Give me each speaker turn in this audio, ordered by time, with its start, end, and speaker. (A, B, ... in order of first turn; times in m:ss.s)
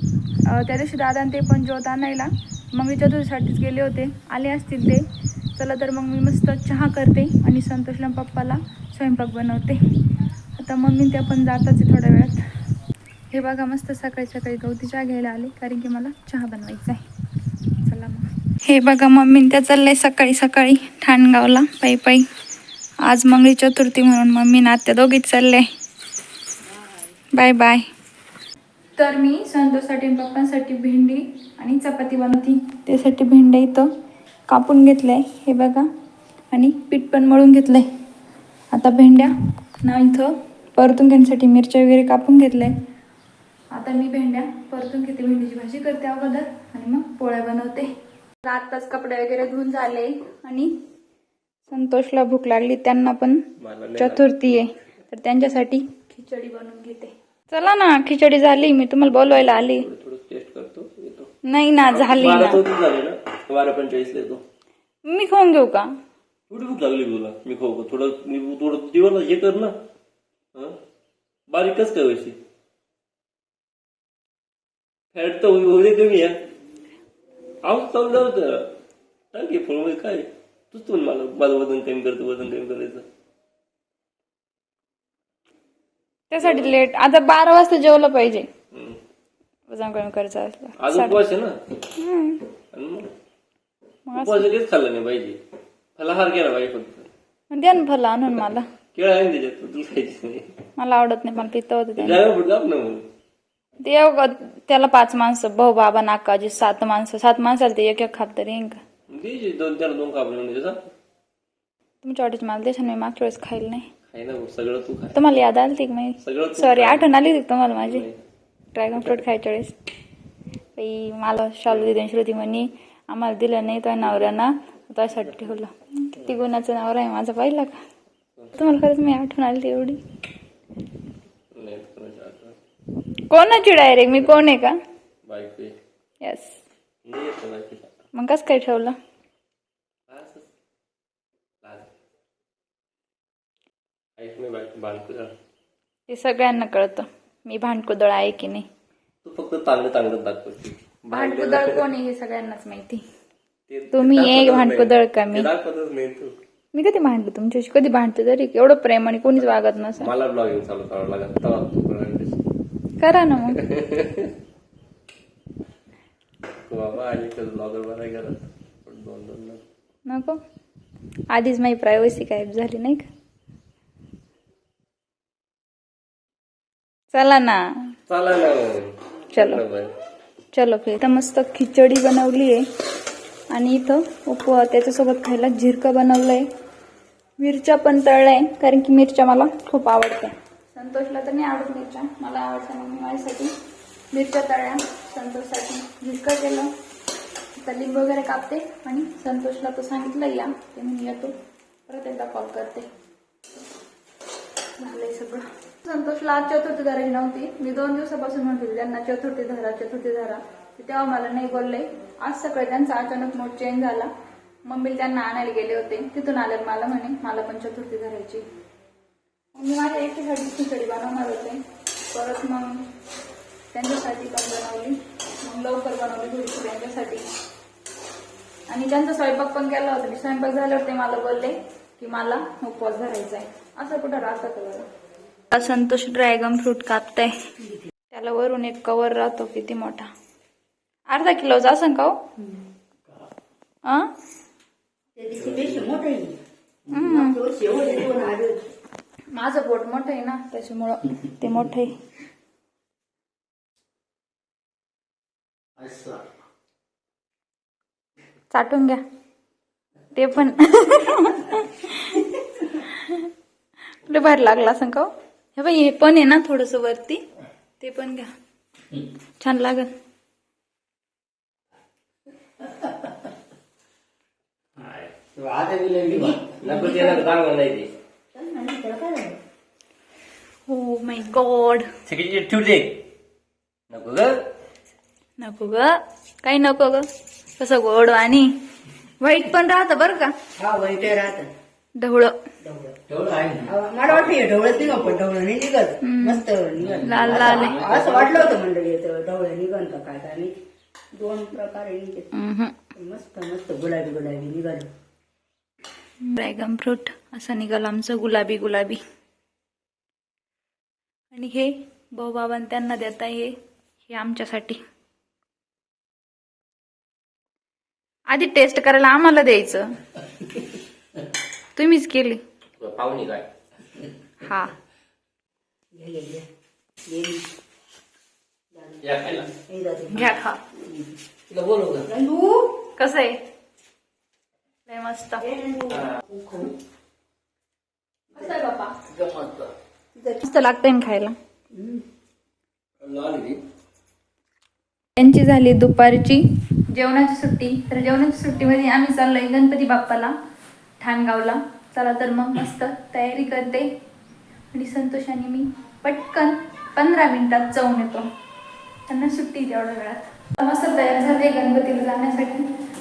0:00.4-0:09.8 A
0:10.6-0:12.4 A
0:13.3-0:17.0 A
0:17.8-0:22.3 A
0:23.0-0:25.7 A
0:27.3-0:27.9 A
0:29.0-0:33.9 A
0:34.5-0:35.9 A
0:36.5-0:37.9 A
0:38.7-0:42.7 A
0:43.7-0:47.9 A
0:48.4-0:50.7 A
0:51.7-0:59.9 A
0:53.6-0:54.6 B
0:59.5-1:01.3 B
1:01.5-1:02.6 A
1:01.9-1:04.4 B
1:05.1-1:05.9 A
1:06.5-1:09.7 B
1:11.5-1:12.4 B
1:15.1-1:16.3 B
1:17.6-1:18.8 B
1:19.3-1:23.0 B
1:26.3-1:28.5 A
1:26.4-1:26.7 B
1:28.7-1:29.0 B
1:29.7-1:31.2 A
1:30.8-1:31.6 B
1:32.0-1:32.4 A
1:32.7-1:33.1 B
1:34.1-1:34.5 A
1:34.2-1:35.4 B
1:36.0-1:37.1 B
1:37.5-1:38.7 A
1:39.0-1:40.5 B
1:40.8-1:42.2 A
1:42.0-1:43.0 B
1:43.8-1:48.8 A
1:49.1-1:50.9 B
1:52.0-1:53.9 A
1:54.1-1:55.2 B
1:55.2-1:58.1 A
1:56.2-1:57.2 B
1:57.8-1:58.2 B
1:58.7-1:59.7 A
2:00.8-2:07.8 A
2:08.6-2:10.0 A
2:11.5-2:12.6 B
2:13.3-2:14.8 A
2:15.3-2:15.8 B
2:16.2-2:16.6 A
2:17.0-2:17.9 B
2:18.1-2:19.0 A
2:20.1-2:20.5 B
2:21.6-2:21.9 B
2:24.2-2:25.3 B
2:26.1-2:28.7 A
2:29.2-2:31.9 B
2:31.1-2:33.0 A
2:33.7-2:36.4 B
2:33.9-2:35.5 A
2:36.7-2:40.1 A
2:40.0-2:42.4 B
2:43.0-2:43.6 A
2:43.6-2:44.3 B
2:46.6-2:49.6 B
2:50.1-2:50.4 A
2:51.3-2:53.1 A
2:57.1-2:57.6 A
2:58.1-2:59.9 B
2:59.3-2:59.6 A
3:00.5-3:02.7 A
3:03.5-3:06.5 A
3:07.4-3:13.5 A
3:14.1-3:16.7 A
3:17.6-3:21.4 A
3:21.9-3:22.9 A
3:24.8-3:34.1 A
3:34.6-3:38.4 A
3:39.6-3:42.8 A
3:43.7-3:47.3 A
3:48.7-3:54.9 A
3:55.5-3:57.4 A
3:58.1-4:00.1 A
4:01.1-4:02.2 A
4:05.2-4:06.4 C
4:06.9-4:07.4 A
4:06.9-4:08.6 C
4:09.3-4:12.0 A
4:15.8-4:16.2 B
4:18.5-4:19.0 A
4:20.1-4:23.3 A
4:24.0-4:27.2 A
4:27.8-4:28.3 A
4:29.4-4:29.9 A
4:34.8-4:37.9 B
4:36.0-4:37.3 C
4:38.3-4:39.4 C
4:40.7-4:41.9 A
4:42.1-4:43.0 B
4:43.9-4:44.4 B
4:45.4-4:48.5 A
4:49.2-4:50.3 A
4:50.6-4:51.5 C
4:52.0-4:52.4 A
4:52.6-4:53.0 C
4:53.1-4:55.1 B
4:53.6-5:00.5 C
4:56.0-4:56.5 A
4:56.8-4:58.5 B
4:57.0-4:57.8 A
5:01.1-5:02.3 C
5:02.3-5:02.8 A
5:03.0-5:04.9 C
5:06.2-5:09.0 A
5:11.3-5:13.6 A
5:14.1-5:14.8 A
5:18.3-5:19.9 A
5:21.8-5:22.4 A
5:22.8-5:23.5 B
5:24.4-5:24.7 A
5:25.9-5:26.5 C
5:27.1-5:27.4 C
5:28.7-5:30.3 C
5:29.0-5:29.4 B
5:30.1-5:30.6 A
5:31.5-5:32.1 B
5:32.0-5:32.8 C
5:33.0-5:33.4 A
5:34.9-5:35.4 A
5:35.4-5:36.7 C
5:38.4-5:38.9 A
5:39.2-5:39.7 B
5:40.4-5:41.4 A
5:41.7-5:42.0 C
5:43.0-5:43.6 B
5:45.2-5:50.4 A
5:51.0-5:53.9 A
5:54.7-5:58.3 A
5:59.1-6:02.7 A